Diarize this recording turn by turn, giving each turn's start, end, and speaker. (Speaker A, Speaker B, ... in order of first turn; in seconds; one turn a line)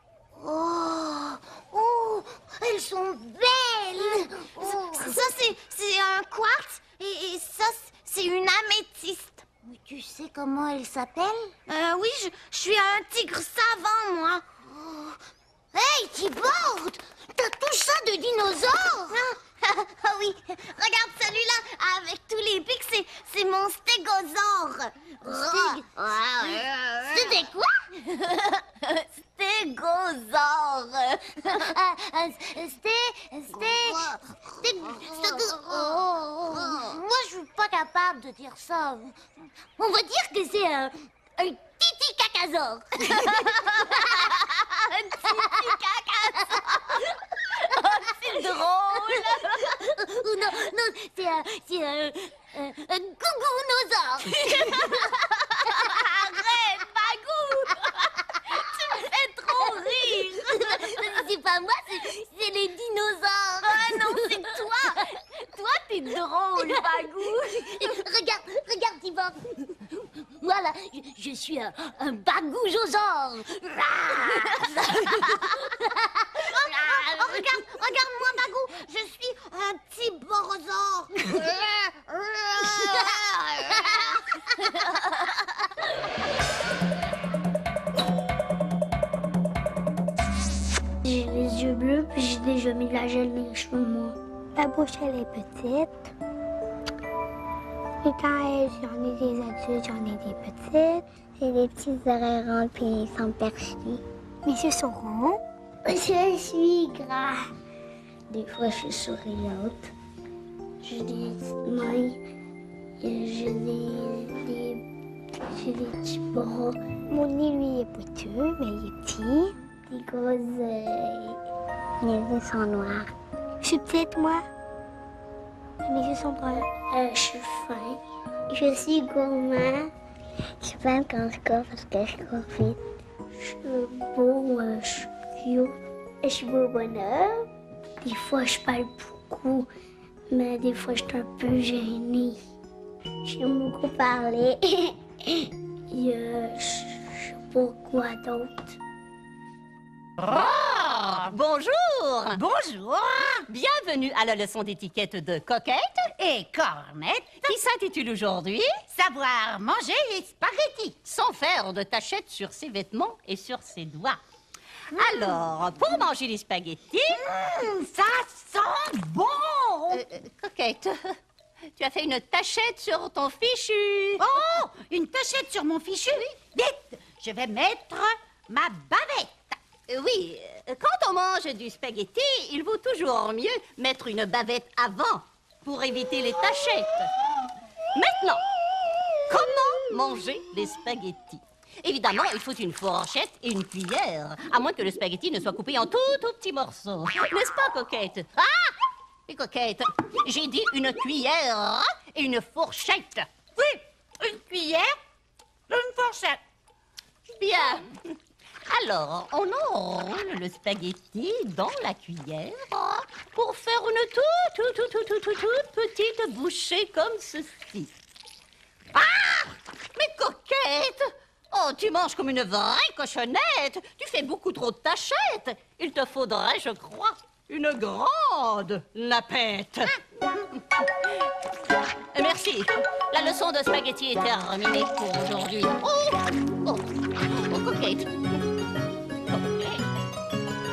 Speaker A: 0.3-5.2
Speaker B: 4.2-9.4
Speaker A: 9.6-11.5
Speaker B: 11.7-14.4
Speaker A: 14.8-15.1
Speaker B: 15.7-17.8
Speaker A: 17.4-19.2
Speaker B: 19.0-25.8
Speaker A: 25.2-28.0
Speaker B: 26.4-27.4
Speaker A: 29.4-39.1
Speaker B: 33.5-34.1
Speaker B: 34.9-35.9
Speaker B: 36.7-37.3
Speaker A: 39.8-44.3
Speaker A: 45.2-45.8
Speaker A: 46.3-47.0
Speaker A: 47.7-55.0
Speaker B: 56.5-57.3
Speaker B: 58.6-60.4
Speaker A: 59.4-64.6
Speaker B: 63.6-65.0
Speaker A: 65.5-69.8
Speaker B: 66.6-67.3
Speaker A: 70.4-78.5
Speaker B: 76.4-83.1
Speaker A: 81.2-81.6
Speaker A: 82.5-84.1
Speaker C: 91.0-96.1
Speaker C: 98.0-105.4
Speaker A: 105.8-107.3
Speaker C: 108.3-109.9
Speaker C: 110.8-112.2
Speaker C: 113.0-114.8
Speaker C: 115.4-121.4
Speaker C: 122.0-123.1
Speaker C: 123.6-124.4
Speaker C: 125.8-129.9
Speaker C: 130.6-132.8
Speaker C: 133.4-137.5
Speaker C: 138.0-139.7
Speaker C: 140.3-142.4
Speaker C: 143.2-148.8
Speaker D: 150.2-152.4
Speaker E: 152.3-153.4
Speaker D: 153.5-156.1
Speaker E: 156.2-157.5
Speaker D: 157.4-158.8
Speaker E: 158.9-160.9
Speaker D: 161.0-164.2
Speaker D: 164.9-167.2
Speaker E: 165.0-165.3
Speaker E: 167.1-170.0
Speaker D: 169.9-171.2
Speaker D: 171.8-174.3
Speaker E: 174.2-179.6
Speaker D: 179.9-187.1
Speaker D: 187.9-188.4
Speaker D: 189.3-198.7
Speaker D: 199.3-203.3
Speaker E: 203.6-204.9
Speaker E: 205.7-206.4
Speaker D: 207.4-208.1
Speaker D: 208.6-217.9
Speaker D: 218.9-230.0
Speaker D: 232.1-236.8
Speaker D: 237.3-238.4
Speaker D: 239.3-239.8